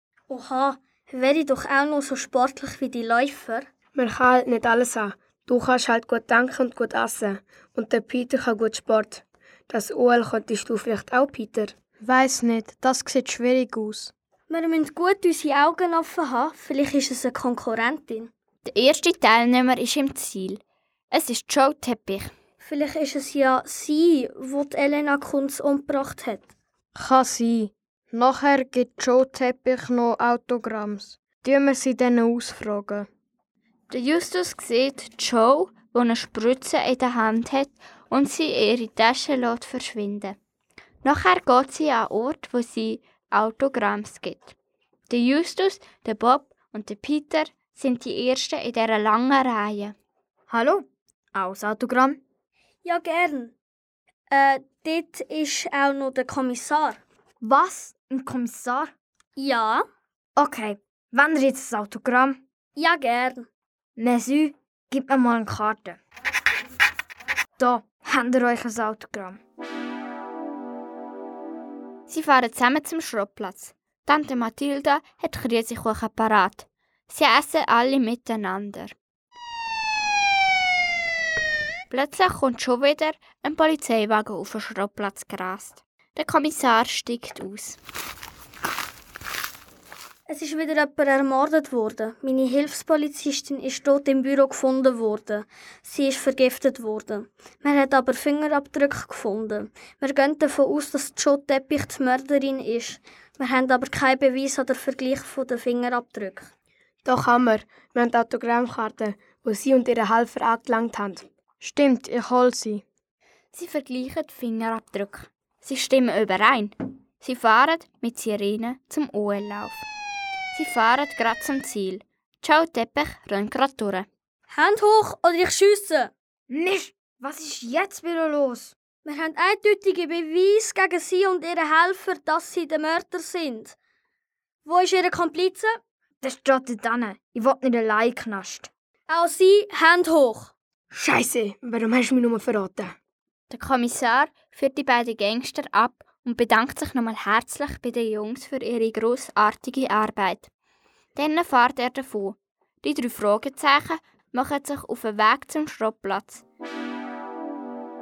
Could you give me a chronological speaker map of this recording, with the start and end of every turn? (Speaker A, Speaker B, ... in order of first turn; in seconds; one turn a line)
Speaker A: 0.3-3.7
Speaker B: 4.0-11.7
Speaker C: 12.0-14.1
Speaker A: 14.5-18.3
Speaker D: 18.7-22.3
Speaker A: 22.6-26.5
Speaker C: 26.9-33.1
Speaker D: 33.9-40.4
Speaker D: 41.0-44.5
Speaker D: 45.1-50.0
Speaker C: 50.5-50.8
Speaker E: 51.4-52.2
Speaker A: 52.8-53.5
Speaker A: 54.3-57.0
Speaker E: 57.4-58.9
Speaker A: 59.4-59.9
Speaker E: 60.4-62.4
Speaker A: 62.8-63.5
Speaker E: 64.0-66.0
Speaker E: 67.6-69.4
Speaker D: 72.1-78.9
Speaker D: 81.9-87.8
Speaker A: 90.3-106.5
Speaker B: 107.0-111.3
Speaker C: 111.6-112.8
Speaker D: 113.5-119.8
Speaker D: 120.5-124.1
Speaker A: 124.5-126.1
Speaker E: 126.5-128.7
Speaker A: 129.1-133.8
Speaker A: 134.7-135.8
Speaker E: 136.2-138.7
Speaker A: 139.1-140.5
Speaker B: 140.9-142.9
Speaker D: 143.5-150.5
Speaker D: 151.2-156.4